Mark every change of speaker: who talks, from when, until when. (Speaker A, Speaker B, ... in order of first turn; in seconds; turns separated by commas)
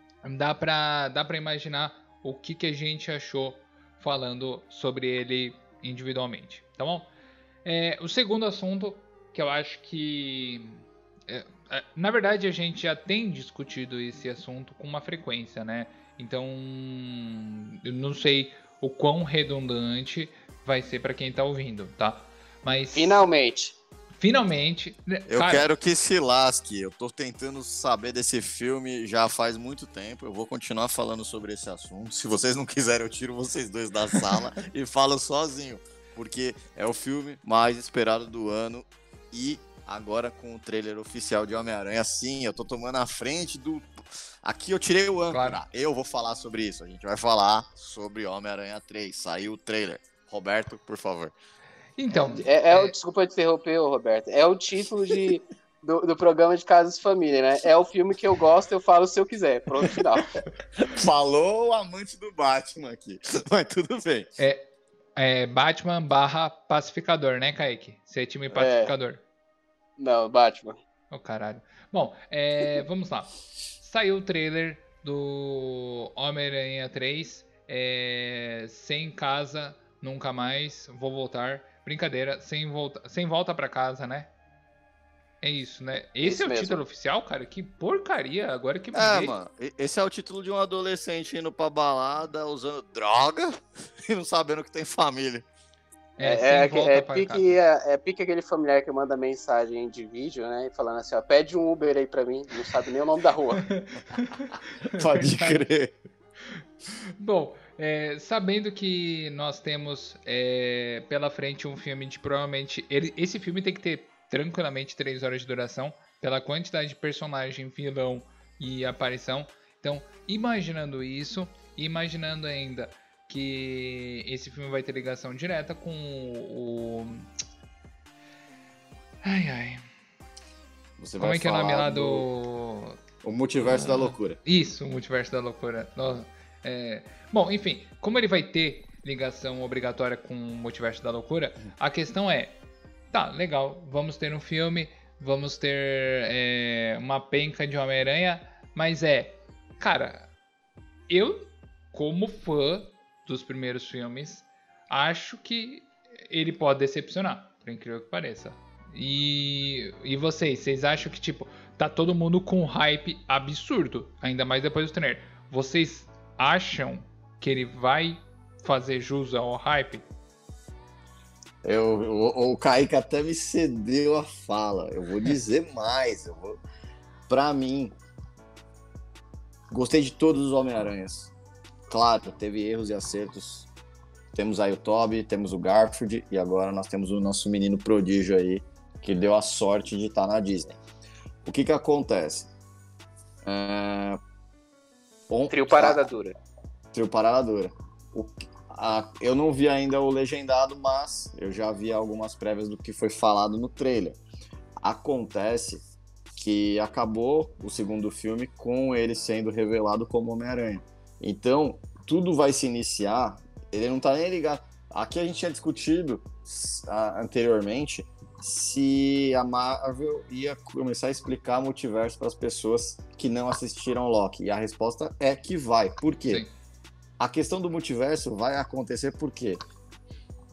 Speaker A: 0.2-7.1, Speaker A: 7.6-23.3, Speaker B: 22.9-23.8, Speaker A: 24.2-25.6, Speaker C: 25.3-51.3, Speaker A: 45.3-45.6, Speaker A: 52.0-52.9, Speaker B: 52.2-60.4, Speaker C: 60.8-64.3, Speaker A: 64.4-69.2, Speaker B: 68.5-68.9, Speaker B: 70.0-70.8, Speaker A: 71.1-84.3, Speaker A: 85.4-89.3, Speaker B: 86.2-86.7, Speaker C: 88.9-95.5, Speaker A: 96.2-97.5, Speaker B: 96.2-103.7, Speaker A: 103.7-105.6, Speaker C: 104.9-105.9, Speaker A: 107.2-127.3, Speaker A: 129.2-129.8, Speaker C: 131.0-132.3, Speaker A: 131.2-133.0, Speaker C: 133.2-134.4, Speaker A: 133.6-142.6, Speaker A: 143.1-150.3, Speaker A: 151.1-170.1, Speaker C: 171.6-176.6, Speaker C: 177.3-177.9, Speaker C: 179.7-181.3, Speaker C: 181.9-183.7, Speaker C: 184.3-190.8, Speaker C: 191.4-192.5, Speaker C: 193.4-194.2, Speaker C: 195.3-196.0, Speaker B: 195.5-196.3, Speaker C: 196.9-204.2, Speaker C: 204.8-205.8, Speaker C: 206.3-226.4, Speaker A: 226.3-226.5, Speaker C: 227.2-229.6